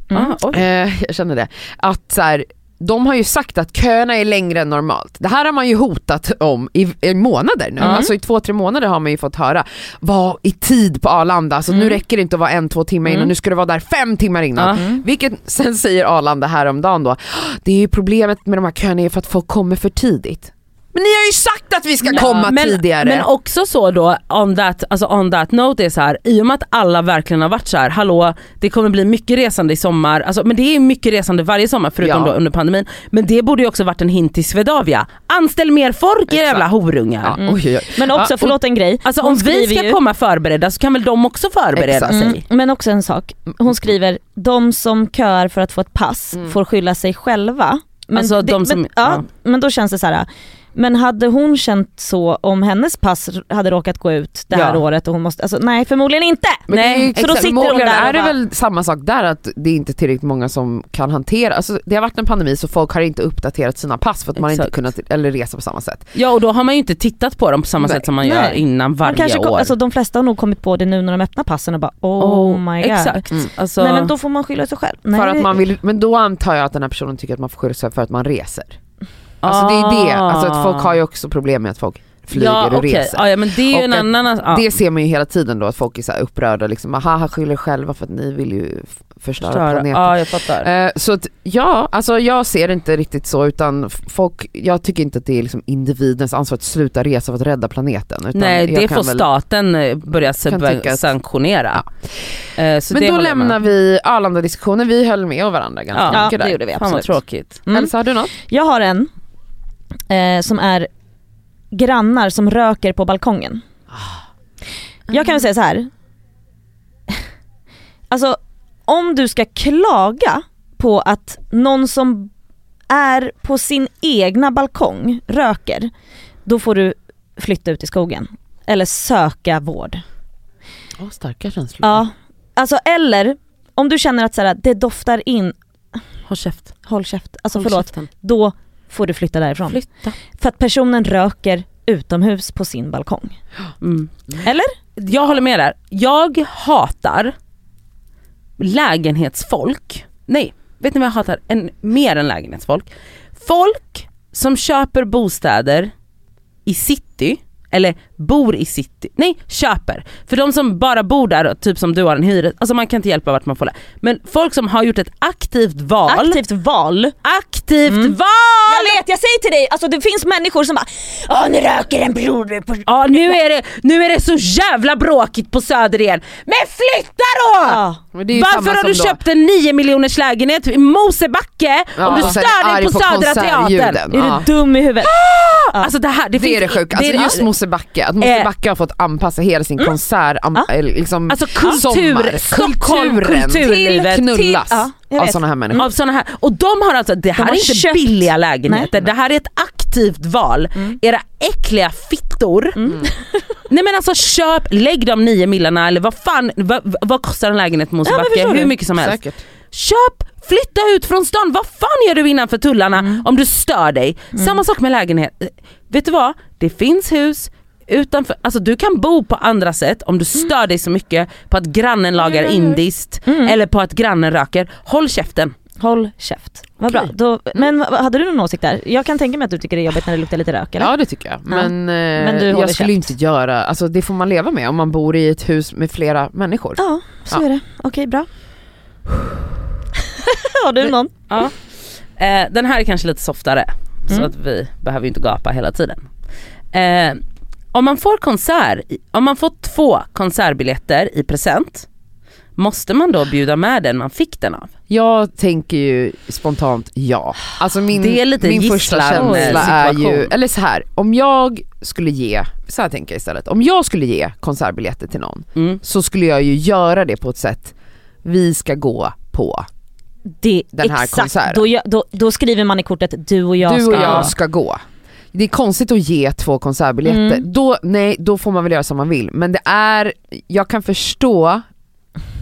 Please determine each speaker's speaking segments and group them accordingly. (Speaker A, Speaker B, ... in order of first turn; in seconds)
Speaker A: 0.1-0.6, 22.1-37.4, 39.0-42.4, 48.1-49.2, 54.5-54.8, 56.7-58.1, 64.4-64.7, 66.2-69.7, 72.2-74.1, 79.4-81.0, 82.3-84.7, 89.4-90.7, 98.3-101.9, 102.6-103.6, 105.9-107.6, 136.3-136.8, 137.6-138.1, 139.7-140.1, 143.8-144.1, 144.9-147.3, 148.6-155.9, 156.7-166.4, 167.2-169.0, 172.9-177.8, 178.3-184.3, 185.0-187.5, 188.2-188.5, 191.3-194.4, 195.8-202.8, 203.7-209.2, 209.7-225.6, 241.3-246.1, 246.7-247.2, 247.7-251.9, 252.6-254.7, 258.0-260.3, 273.9-274.3
Speaker B: 0.5-23.3, 32.0-32.3, 36.3-36.7, 37.2-38.5, 41.8-42.2, 56.7-66.1, 75.1-78.8, 79.4-99.2, 100.2-101.1, 102.9-106.6, 107.7-108.3, 131.0-132.0, 178.1-179.2, 182.0-184.4, 186.4-195.9, 208.9-209.4, 222.2-222.8, 226.9-227.6, 230.8-237.4, 254.9-269.7, 270.7-271.7, 273.6-281.6
Speaker C: 7.8-8.1, 11.7-12.0, 14.7-15.0, 22.1-22.5, 37.4-40.0, 42.1-58.3, 68.2-73.2, 73.8-75.6, 106.1-107.1, 107.7-109.1, 110.1-110.9, 111.7-113.6, 115.1-115.9, 118.1-122.3, 122.9-125.9, 126.5-130.0, 131.8-135.6, 136.8-143.4, 144.4-144.8, 166.1-167.1, 167.9-168.1, 168.7-173.3, 177.6-178.0, 184.1-185.1, 193.7-195.9, 197.4-198.1, 202.8-203.5, 208.1-208.7, 223.3-223.6, 225.8-230.9, 231.5-233.1, 236.8-238.3, 240.2-241.1, 270.4-274.3, 277.1-277.4